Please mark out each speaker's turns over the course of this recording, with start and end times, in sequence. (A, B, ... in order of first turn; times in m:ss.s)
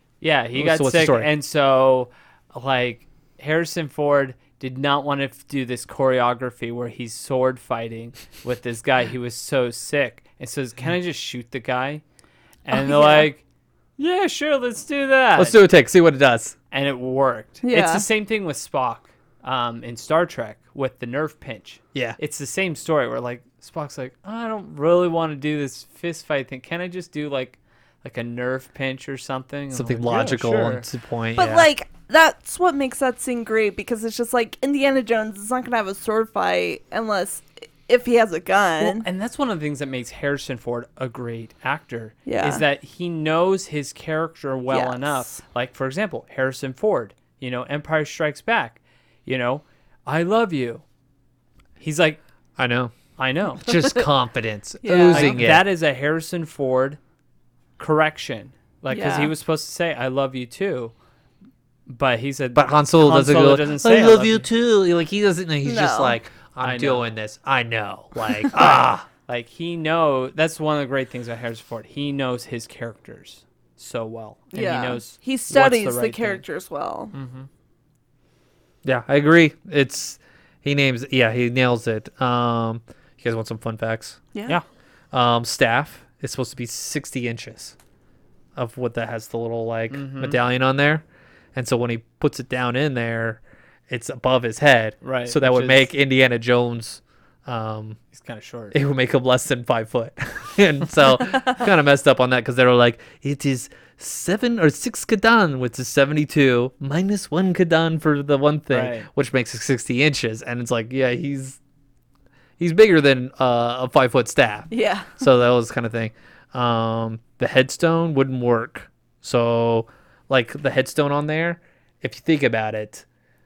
0:00.2-0:12.0 A
0:00.6-0:01.3 B
0:12.6-0:13.4 A
0:12.7-0:13.3 C
0:14.0-0:15.6 A
0:15.4-0:16.6 B
0:16.7-0:30.9 A
0:17.6-0:18.0 C
0:29.7-0:31.7 B
0:31.4-0:39.1 C
0:38.8-0:50.8 A
0:42.3-0:42.6 C
0:44.7-0:45.4 C
0:51.8-0:52.2 A
0:52.6-0:53.0 B
0:53.2-0:53.7 A
0:53.6-0:55.6 B
0:54.8-0:55.4 C
0:55.1-0:57.0 A
0:57.8-1:00.9 A
0:58.9-0:59.3 C
1:01.9-1:04.5 A
1:02.6-1:09.1 B
1:05.6-1:06.2 C
1:06.6-1:07.1 A
1:08.5-1:16.4 A
1:14.5-1:17.1 C
1:17.1-1:17.5 A
1:18.8-1:24.2 B
1:25.1-1:27.8 B
1:28.6-1:38.0 B
1:29.9-1:30.4 A
1:35.0-1:35.9 A
1:38.1-1:38.8 A
1:38.7-1:51.6 B
1:48.7-1:49.1 A
1:52.6-2:03.0 B
1:54.7-1:55.2 C